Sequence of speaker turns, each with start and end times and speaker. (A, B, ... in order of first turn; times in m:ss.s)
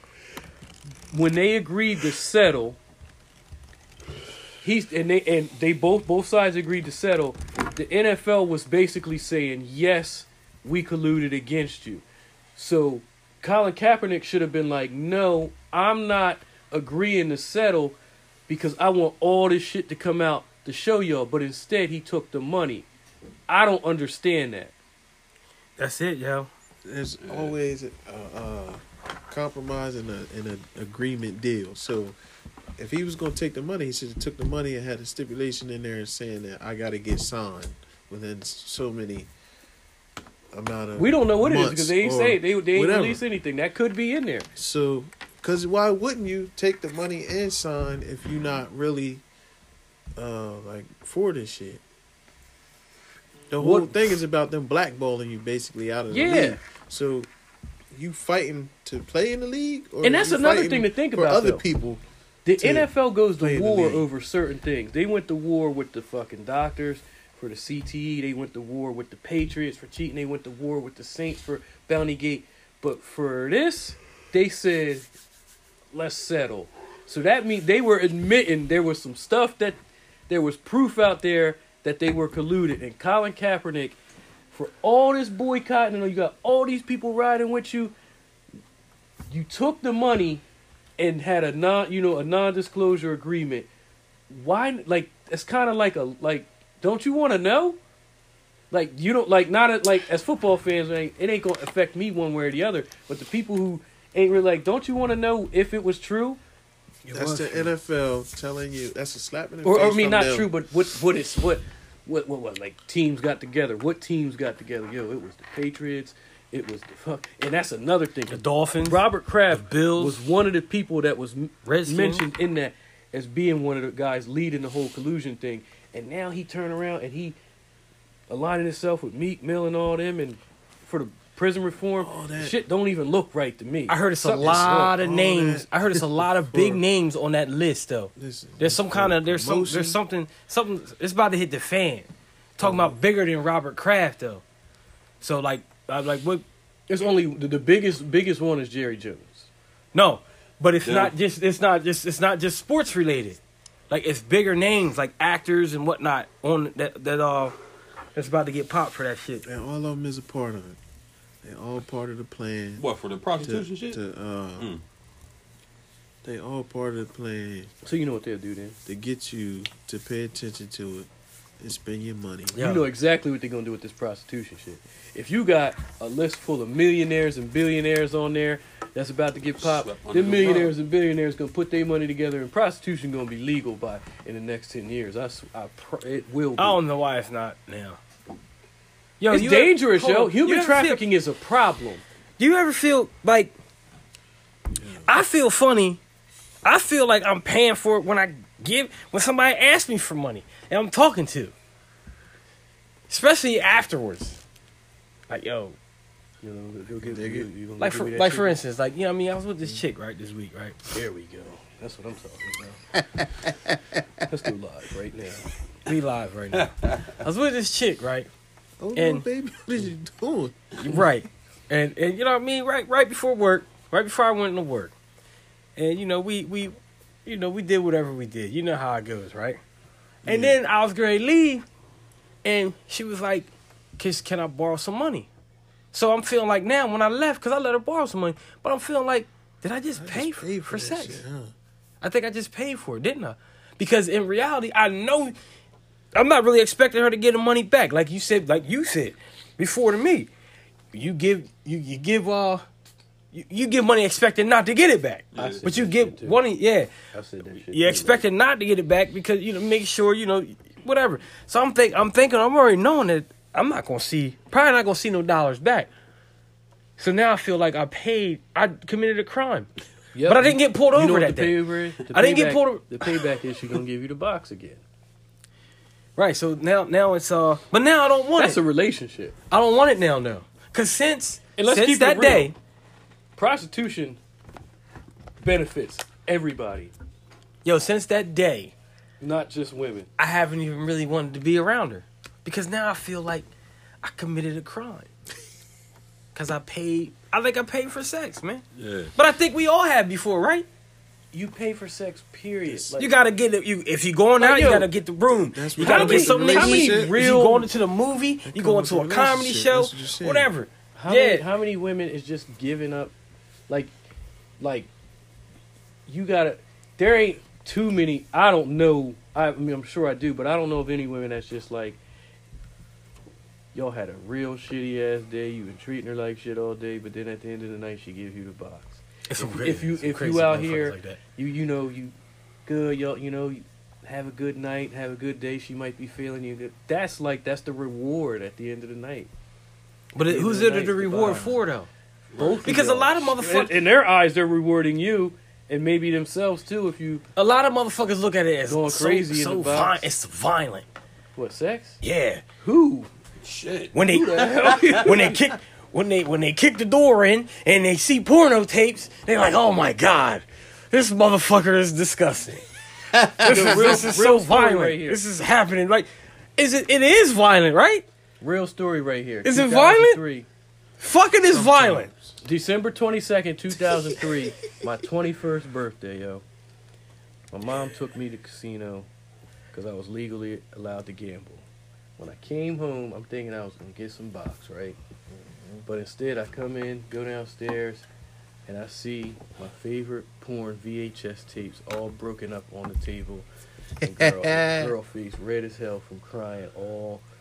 0:01.1-0:02.8 A
0:04.6-0:12.0 A
0:12.6-0:18.0 A
0:18.5-0:22.9 A
0:23.5-0:24.7 A
0:25.8-0:26.5 B
0:26.8-0:32.2 C
0:27.2-0:27.5 D
0:32.8-0:39.3 C
0:40.5-0:43.2 C
0:41.0-0:44.5 A
0:44.6-0:49.2 C
0:50.2-0:51.8 C
0:53.5-0:57.3 C
0:53.6-0:54.0 A
0:56.1-0:56.6 A
0:57.9-1:02.0 C
1:00.0-1:01.6 A
1:02.4-1:15.1 A
1:02.6-1:04.1 C
1:15.9-1:19.8 A
1:20.3-1:24.0 A
1:24.5-1:27.9 A
1:29.3-1:30.4 A
1:31.0-1:33.7 A
1:34.3-1:37.8 A
1:38.7-1:46.4 A
1:47.0-1:47.7 B
1:47.1-1:50.5 C
1:49.6-2:07.4 A
1:58.3-1:59.0 B
1:59.5-2:00.2 B
2:01.6-2:02.2 B
2:08.3-2:14.9 A
2:12.0-2:12.6 C
2:13.9-2:24.4 B
2:14.4-2:16.8 C
2:18.2-2:20.0 C
2:22.6-2:22.9 C
2:25.2-2:26.4 B
2:26.9-2:29.5 A
2:29.9-2:33.4 B
2:30.8-2:31.1 D
2:33.9-2:37.6 B
2:38.1-2:39.4 B
2:39.4-2:40.8 C
2:41.4-2:42.8 C
2:42.8-2:44.0 D
2:43.4-2:44.7 C
2:46.2-2:47.7 C
2:47.8-2:48.8 A
2:48.8-2:51.1 C
2:51.6-2:52.6 C
2:52.5-2:52.8 B
2:52.5-3:06.8 A
2:59.6-3:00.7 D
3:06.6-3:08.0 B
3:09.2-3:11.0 B
3:09.3-3:12.0 A
3:12.4-3:13.5 B
3:14.8-3:15.1 C
3:15.0-3:16.0 B
3:16.6-3:21.5 B
3:23.1-3:24.4 B
3:25.3-3:25.8 B
3:26.4-3:28.6 A
3:27.0-3:27.5 C
3:27.8-3:30.8 B
3:30.9-3:32.8 A
3:33.1-3:34.0 C
3:34.2-3:35.5 A
3:35.8-3:38.3 B
3:36.6-3:36.9 D
3:38.8-3:41.1 C
3:38.9-3:39.2 B
3:40.8-3:44.9 B
3:45.8-3:49.6 B
3:50.2-3:50.6 C
3:50.2-3:51.6 B
3:52.4-3:55.3 B
3:55.9-4:01.2 B
4:00.0-4:01.5 C
4:02.0-4:05.3 B
4:06.1-4:10.3 B
4:10.9-4:12.6 B
4:13.3-4:16.9 B
4:15.3-4:15.6 D
4:15.4-4:16.4 A
4:17.1-4:18.2 A
4:17.7-4:25.9 B
4:27.0-4:29.7 B
4:30.1-4:34.8 A
4:30.2-4:31.6 B
4:32.1-4:32.8 B
4:36.2-4:38.6 B
4:38.4-4:39.4 A
4:39.5-4:42.5 B
4:41.6-4:42.5 A
4:43.4-4:44.2 A
4:45.4-4:46.9 A
4:47.6-4:48.7 B
4:49.2-4:50.1 A
4:50.2-4:53.4 B
4:54.0-4:55.1 B
4:56.3-4:58.6 B
4:58.8-4:59.1 D
4:59.2-5:00.6 B
5:01.3-5:03.2 A
5:03.0-5:11.4 B
5:04.4-5:04.9 A
5:05.3-5:07.3 C
5:05.8-5:07.7 A
5:08.4-5:10.5 C
5:10.9-5:13.1 A
5:14.6-5:14.9 A
5:16.1-5:22.0 A
5:23.7-5:32.1 A
5:29.3-5:31.2 B
5:32.6-5:39.3 A
5:40.1-5:41.9 B
5:40.3-5:41.6 A
5:42.3-5:42.7 D
5:42.4-5:47.2 A
5:42.6-5:43.7 B
5:47.4-5:50.9 B
5:48.7-5:50.0 A
5:51.4-5:52.0 A
5:52.0-5:52.4 B
5:52.6-5:53.1 A
5:53.4-5:55.0 D
5:53.9-6:02.6 B
5:54.1-5:55.4 A
6:03.1-6:04.0 C
6:03.3-6:08.0 B
6:03.4-6:05.2 A
6:08.4-6:10.5 A
6:09.4-6:10.2 B
6:11.0-6:12.1 B
6:11.4-6:12.4 C
6:12.4-6:16.4 A
6:13.9-6:14.3 C
6:17.5-6:19.1 A
6:19.7-6:21.6 A
6:22.2-6:25.0 A
6:25.3-6:25.8 C
6:25.8-6:28.0 A
6:28.6-6:33.5 A
6:34.0-6:37.2 A
6:34.0-6:34.9 C